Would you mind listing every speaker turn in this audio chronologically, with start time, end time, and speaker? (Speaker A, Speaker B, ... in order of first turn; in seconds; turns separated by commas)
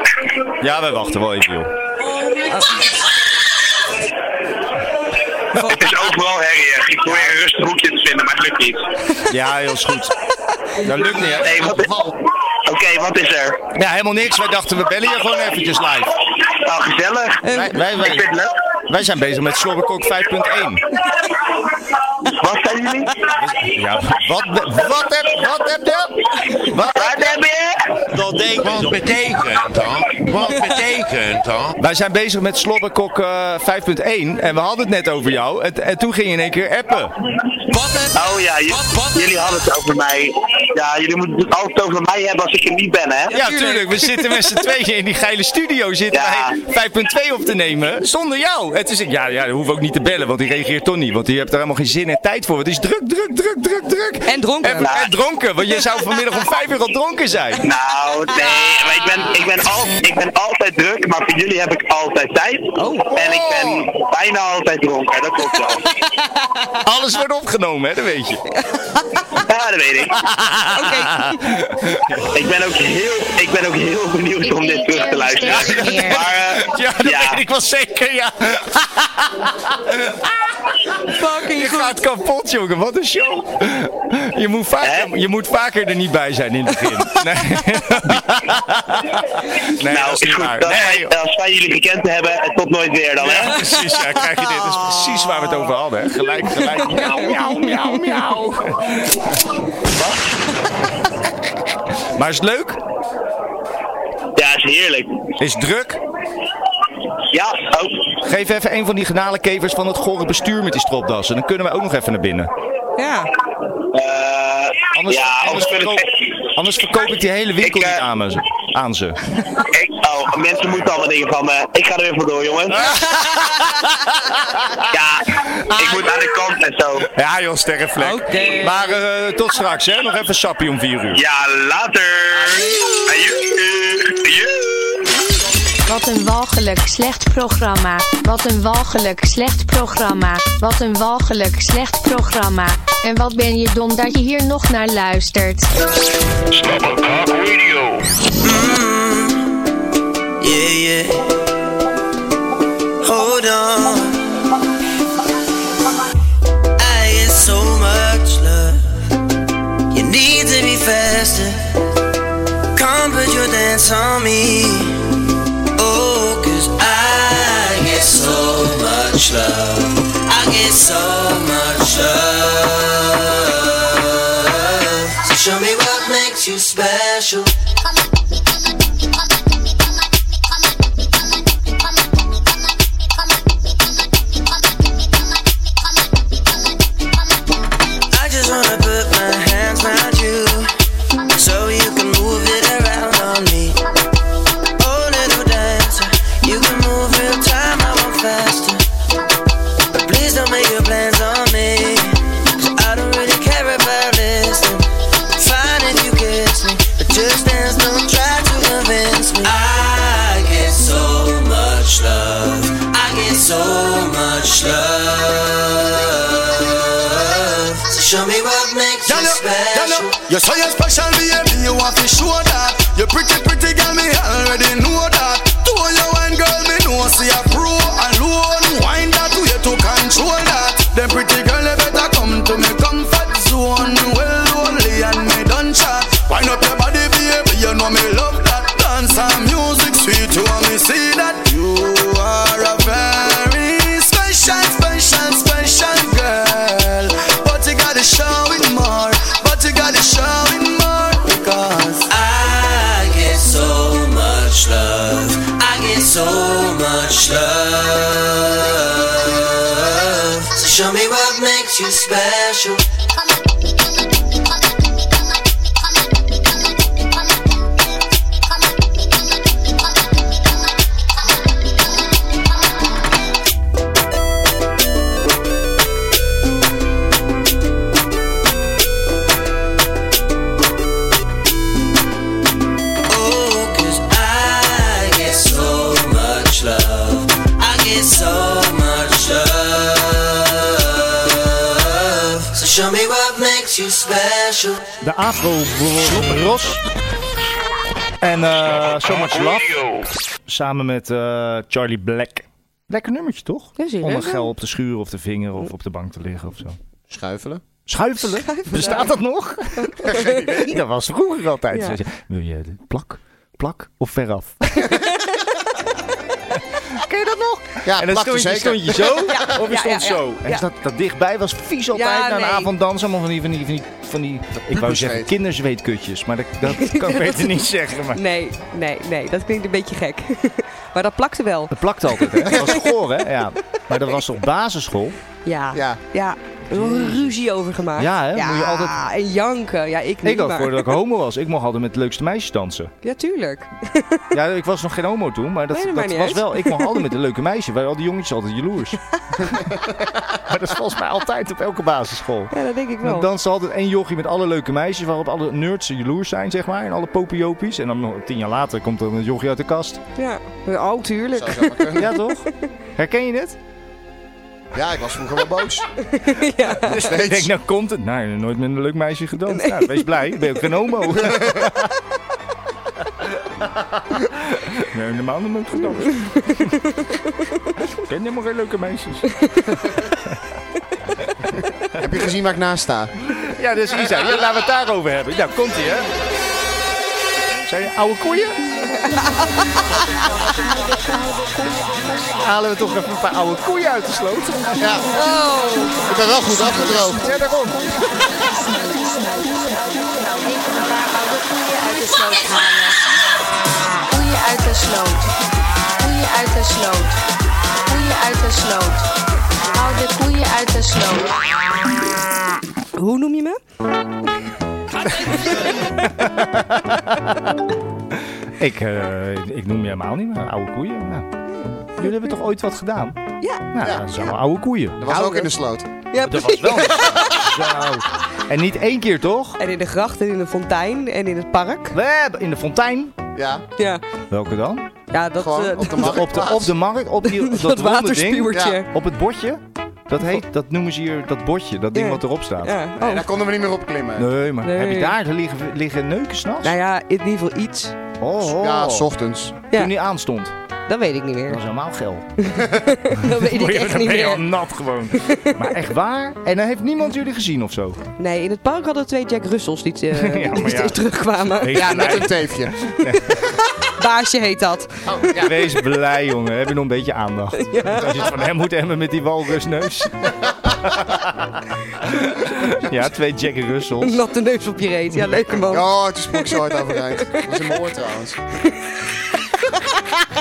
Speaker A: 0.6-1.7, Speaker B: 2.5-2.8, Speaker C: 5.6-8.8, Speaker A: 9.3-10.1, Speaker A: 10.8-11.8, Speaker C: 11.3-12.1, Speaker C: 12.6-13.7, Speaker A: 13.7-16.1, Speaker C: 16.4-18.5, Speaker B: 17.4-17.8, Speaker A: 17.5-18.3, Speaker A: 18.9-20.8, Speaker C: 22.2-23.2, Speaker A: 23.2-27.3, Speaker C: 26.9-27.8, Speaker A: 28.1-29.0, Speaker D: 28.5-31.8, Speaker A: 31.8-37.1, Speaker C: 38.1-43.3, Speaker A: 43.3-57.6, Speaker B: 43.3-44.5, Speaker C: 46.1-46.5, Speaker B: 54.2-54.8, Speaker C: 54.8-55.1, Speaker C: 57.6-65.8, Speaker B: 62.8-63.4, Speaker A: 63.5-63.9, Speaker A: 66.8-68.4, Speaker B: 68.5-69.1, Speaker C: 69.3-70.2, Speaker A: 70.1-72.3, Speaker B: 70.7-71.4, Speaker C: 72.3-77.4, Speaker E: 74.4-76.3, Speaker A: 75.5-80.5, Speaker A: 81.0-91.1, Speaker B: 81.1-82.0, Speaker C: 84.8-85.1, Speaker C: 89.8-93.6, Speaker A: 93.2-99.4, Speaker B: 96.6-97.8, Speaker C: 99.8-100.1, Speaker A: 102.0-102.8, Speaker C: 104.3-105.1, Speaker A: 105.4-106.0, Speaker C: 107.3-108.0, Speaker A: 108.2-112.5, Speaker B: 113.0-113.3, Speaker C: 113.9-116.0, Speaker A: 114.9-119.5, Speaker C: 117.6-118.0, Speaker C: 119.6-122.8, Speaker A: 122.7-124.9, Speaker C: 124.9-127.1, Speaker A: 125.6-126.2, Speaker A: 127.1-131.2, Speaker B: 128.0-129.0, Speaker C: 131.1-135.0, Speaker B: 132.4-133.1, Speaker E: 135.8-145.7, Speaker D: 146.5-148.1, Speaker F: 148.4-149.5, Speaker F: 150.4-151.4, Speaker F: 153.0-154.2, Speaker F: 156.8-158.9, Speaker F: 159.9-161.6, Speaker F: 162.7-165.1, Speaker F: 165.8-177.5, Speaker F: 188.1-190.7, Speaker F: 191.3-193.8, Speaker F: 194.8-198.8, Speaker F: 199.9-220.2, Speaker G: 219.1-252.1, Speaker F: 252.1-262.8, Speaker F: 283.1-294.8, Speaker A: 295.0-296.9, Speaker A: 298.2-299.9, Speaker D: 299.1-300.0, Speaker A: 300.4-306.8, Speaker B: 303.8-304.5, Speaker H: 307.1-307.6, Speaker A: 307.9-315.0, Speaker B: 308.5-309.1, Speaker H: 310.0-310.7, Speaker B: 311.7-312.0, Speaker A: 316.6-328.2, Speaker H: 317.8-319.3, Speaker B: 319.3-320.6, Speaker B: 321.9-322.7, Speaker H: 324.6-325.3, Speaker B: 326.6-332.8, Speaker A: 331.7-335.2, Speaker B: 335.4-341.0, Speaker H: 335.7-336.0, Speaker A: 336.7-337.3, Speaker A: 338.0-339.0, Speaker A: 340.2-342.9, Speaker B: 343.0-344.3, Speaker A: 344.3-349.6, Speaker B: 345.7-347.1, Speaker A: 350.2-360.0, Speaker B: 352.5-353.3, Speaker B: 360.2-362.5, Speaker H: 361.3-362.1, Speaker A: 362.0-363.6, Speaker H: 364.7-365.9, Speaker B: 366.1-367.2, Speaker H: 366.8-367.5, Speaker A: 366.9-371.9, Speaker B: 369.5-370.6, Speaker A: 373.4-376.8, Speaker A: 377.9-380.4, Speaker H: 382.0-383.1, Speaker A: 383.3-386.1, Speaker A: 387.6-388.7, Speaker B: 389.1-389.4, Speaker E: 390.7-391.9, Speaker A: 392.4-394.9, Speaker H: 394.8-395.1, Speaker B: 395.1-396.0, Speaker H: 396.0-397.3, Speaker E: 396.5-397.4, Speaker A: 397.0-398.1, Speaker E: 398.2-403.0, Speaker E: 404.1-405.3, Speaker E: 406.0-407.2, Speaker E: 407.9-409.1, Speaker E: 409.7-411.4, Speaker B: 412.9-413.6, Speaker A: 415.0-417.5, Speaker A: 418.1-421.3, Speaker A: 422.0-425.0, Speaker H: 423.8-424.3, Speaker H: 425.0-425.9, Speaker B: 425.1-425.5, Speaker B: 426.1-427.3, Speaker A: 426.2-429.6, Speaker B: 429.6-431.9, Speaker A: 431.9-433.1, Speaker H: 433.3-433.6, Speaker B: 433.8-434.0, Speaker A: 434.3-434.9, Speaker B: 435.1-436.2, Speaker H: 435.3-436.7, Speaker A: 436.0-442.7, Speaker B: 437.2-438.9, Speaker H: 438.5-438.8, Speaker B: 441.9-443.2, Speaker H: 443.0-444.3, Speaker A: 444.2-446.7, Speaker B: 444.6-445.1, Speaker B: 446.6-448.0, Speaker A: 448.2-449.1, Speaker H: 448.4-449.6, Speaker A: 449.7-450.5, Speaker B: 450.9-451.6, Speaker A: 451.5-452.2, Speaker B: 452.4-454.5, Speaker A: 453.2-458.0, Speaker B: 455.1-455.5, Speaker B: 458.2-462.2, Speaker A: 460.1-463.4, Speaker H: 461.7-462.8, Speaker B: 463.3-465.5, Speaker H: 465.1-465.5, Speaker A: 465.3-474.2, Speaker B: 467.6-468.3, Speaker B: 474.0-477.5, Speaker H: 475.6-478.4